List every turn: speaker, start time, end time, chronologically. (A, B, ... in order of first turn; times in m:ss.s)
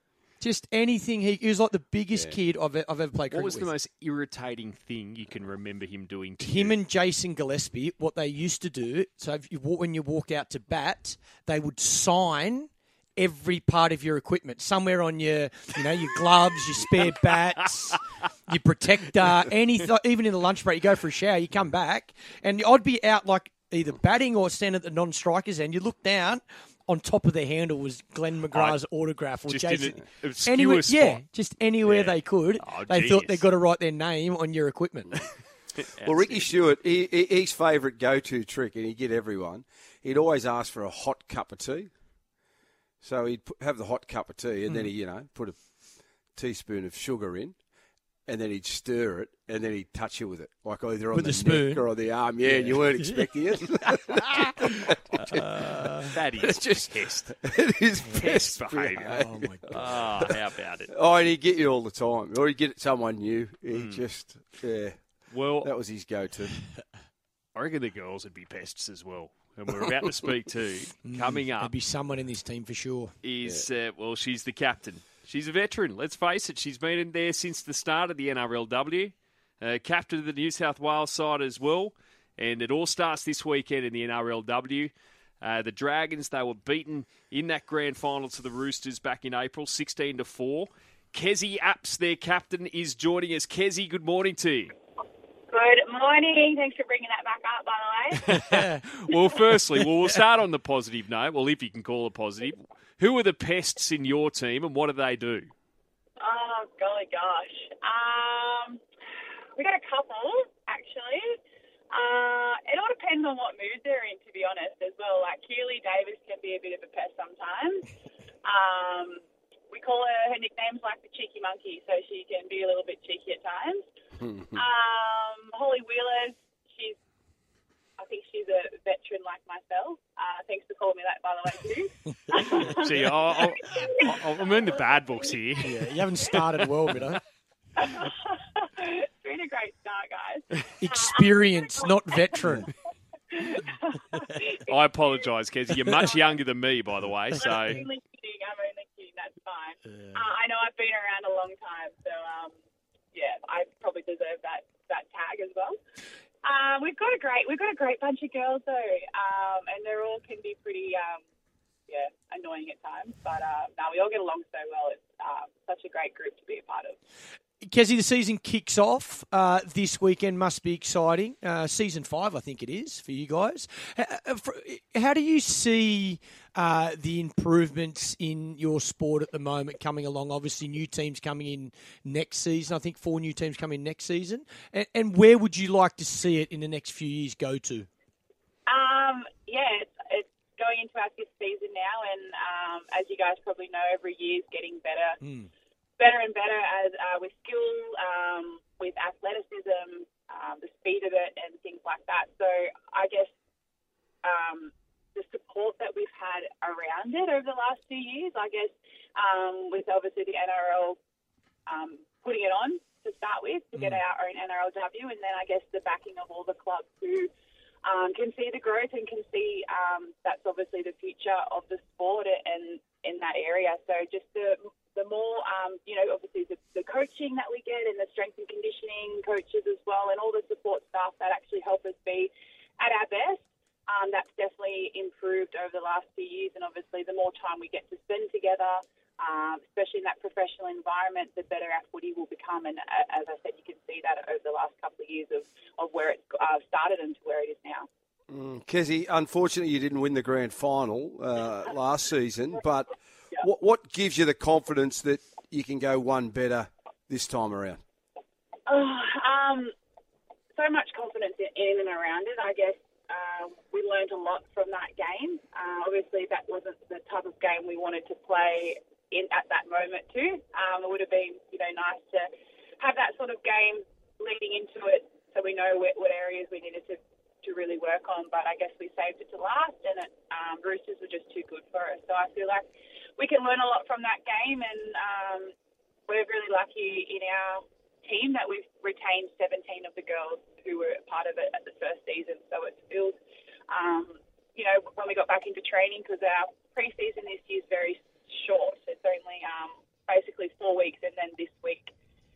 0:00.4-0:03.7 A
0:03.3-0:06.8 B
0:06.4-0:35.2 A
0:17.1-0:18.0 B
0:28.5-0:31.2 B
0:31.8-0:33.5 B
0:35.8-0:36.5 B
0:36.0-0:41.9 C
0:43.0-0:45.6 C
0:46.4-0:47.6 C
0:48.3-1:00.3 C
0:51.1-0:51.9 A
0:52.4-0:53.3 A
0:53.9-0:56.1 A
0:55.2-0:55.4 B
0:56.1-0:57.4 B
0:58.1-0:58.4 A
0:58.1-1:00.9 B
0:59.0-0:59.9 A
1:00.9-1:06.7 C
1:03.7-1:04.0 B
1:05.3-1:05.7 B
1:07.6-1:11.7 B
1:11.0-1:13.2 A
1:13.2-1:34.7 B
1:35.5-1:38.3 D
1:38.2-1:45.5 B
1:38.4-1:38.8 A
1:46.2-1:48.8 D
1:49.6-1:51.4 D
1:51.9-1:57.9 D
1:58.4-2:03.9 D
2:04.2-2:04.6 C
2:04.6-2:07.0 D
2:08.0-2:16.7 D
2:12.7-2:16.0 B
2:15.6-2:17.2 A
2:17.8-2:22.7 D
2:20.8-2:22.7 A
2:23.3-2:24.8 D
2:24.7-2:27.8 B
2:27.4-2:32.6 D
2:29.9-2:30.2 A
2:33.1-2:35.8 D
2:36.4-2:41.2 D
2:41.9-2:47.0 D
2:47.6-3:07.9 A
3:08.7-3:15.2 D
3:15.2-3:15.5 A
3:16.0-3:23.3 D
3:24.2-3:31.0 D
3:31.7-3:37.3 D
3:33.8-3:34.0 A
3:37.8-4:07.9 D
4:08.3-4:17.8 C
4:18.7-4:19.7 D
4:20.6-4:42.7 D
4:43.2-4:45.5 D
4:46.1-4:53.2 D
4:53.7-5:01.9 D